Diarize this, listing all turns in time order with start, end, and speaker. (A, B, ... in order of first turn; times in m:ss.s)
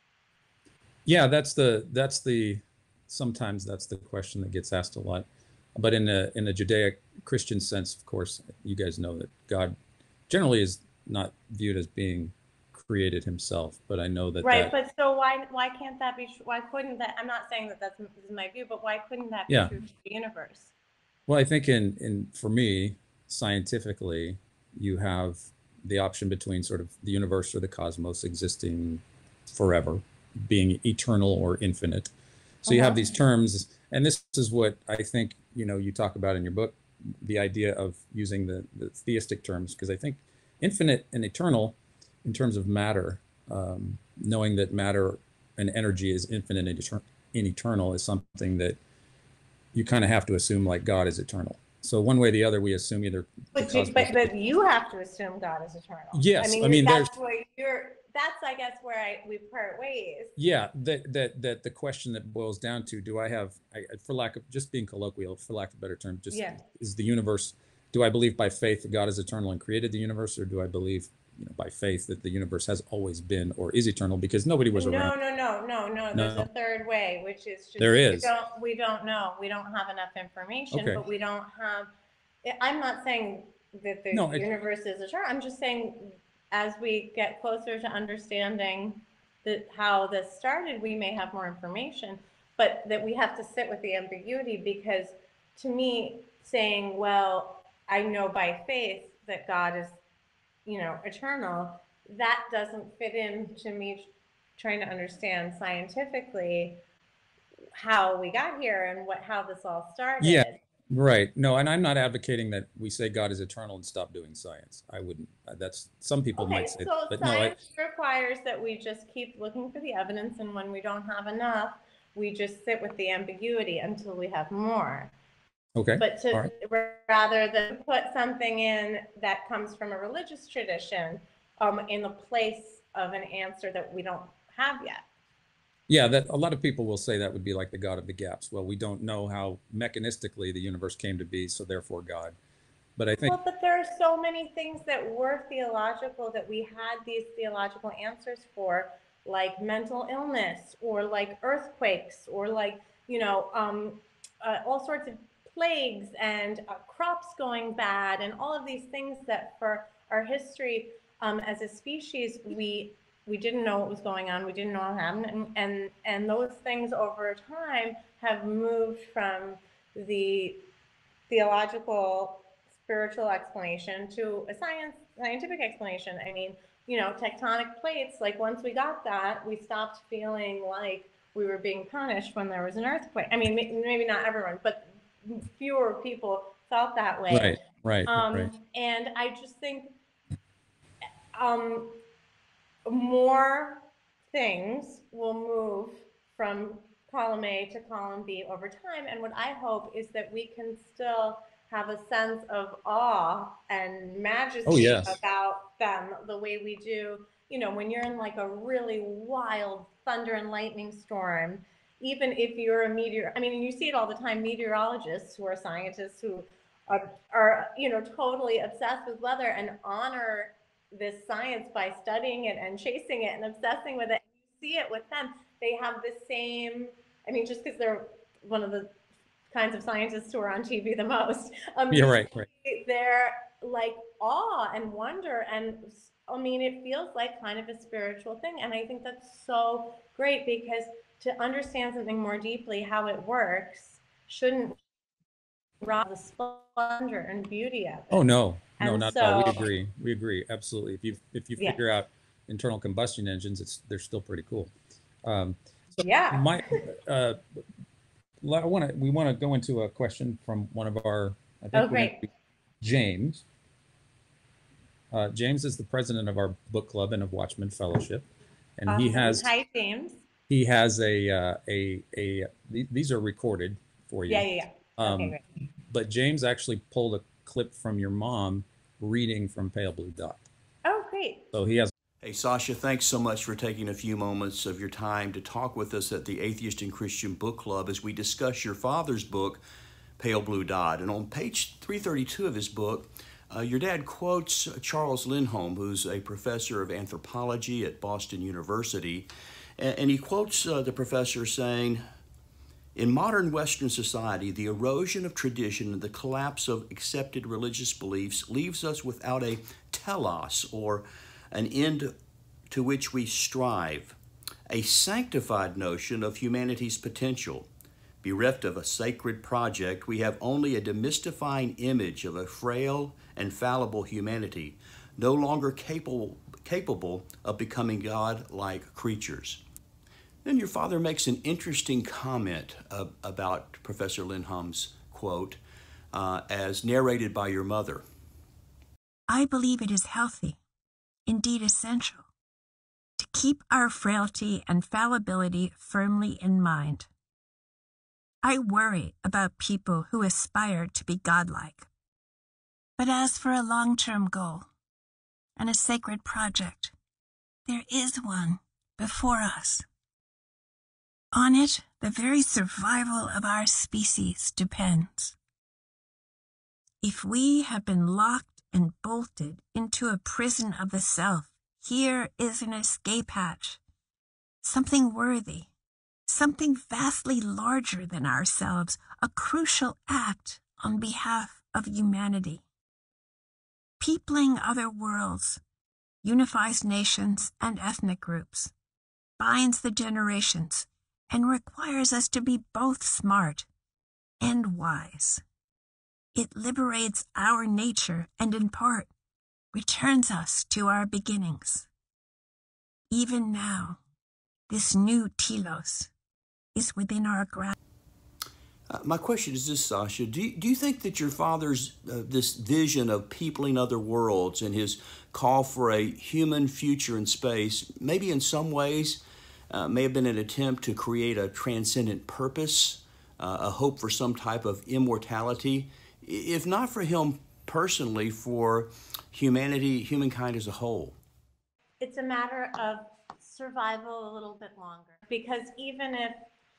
0:01.1-0:09.8 A
0:10.3-0:14.7 A
0:14.4-0:20.7 B
0:19.5-0:19.7 A
0:21.3-0:32.1 A
0:32.6-0:48.8 A
0:32.7-0:33.2 B
0:49.7-0:54.3 A
0:53.5-1:00.4 B
0:56.1-0:57.1 A
1:00.4-1:15.2 A
1:06.3-1:06.6 B
1:14.8-1:21.9 B
1:16.2-1:16.5 A
1:17.8-1:18.3 A
1:20.7-1:21.0 A
1:22.4-1:40.0 B
1:24.1-1:24.5 A
1:40.7-1:46.8 B
1:47.8-1:50.6 B
1:50.2-1:57.6 A
1:56.4-2:05.1 B
2:05.8-2:06.5 A
2:06.0-2:15.0 B
2:15.9-2:22.4 A
2:23.0-2:23.4 A
2:23.2-2:50.6 B
2:51.3-3:10.0 B
3:07.3-3:08.5 A
3:11.3-3:12.0 B
3:12.9-3:48.9 B
3:24.7-3:25.2 A
3:49.5-4:04.8 B
3:51.9-3:52.5 A
4:05.8-4:08.2 B
4:08.1-4:14.7 A
4:08.8-4:09.7 B
4:15.2-4:17.4 A
4:16.0-4:16.6 B
4:18.4-4:22.3 A
4:21.7-4:22.2 B
4:22.8-4:23.4 A
4:25.1-4:28.3 A
4:28.8-4:29.5 A
4:28.9-4:30.2 B
4:30.5-4:40.4 A
4:34.3-4:35.4 B
4:40.8-4:41.5 B
4:41.5-4:41.9 A
4:42.2-4:49.6 C
4:50.2-5:02.0 C
5:03.0-5:12.1 C
5:12.7-5:14.2 C
5:14.7-5:17.7 C
5:18.2-5:29.6 C
5:30.4-5:35.6 C
5:36.1-5:38.0 C
5:39.3-5:40.6 D
5:41.3-5:42.3 D
5:43.2-5:47.1 D
5:48.4-5:51.9 D
5:53.0-5:54.7 D
5:55.6-5:56.9 D
5:57.7-5:59.8 D
6:01.3-6:05.4 D
6:07.0-6:13.8 D
6:14.6-6:15.7 D
6:16.3-6:22.6 D
6:24.0-6:25.6 D
6:26.2-6:28.7 D
6:29.4-6:33.7 D
6:34.4-6:35.4 D
6:36.4-6:39.1 D
6:39.7-6:41.9 D
6:43.1-6:44.0 D
6:44.7-6:46.1 D
6:46.8-6:47.7 D
6:48.9-7:11.2 C
7:12.0-7:16.4 B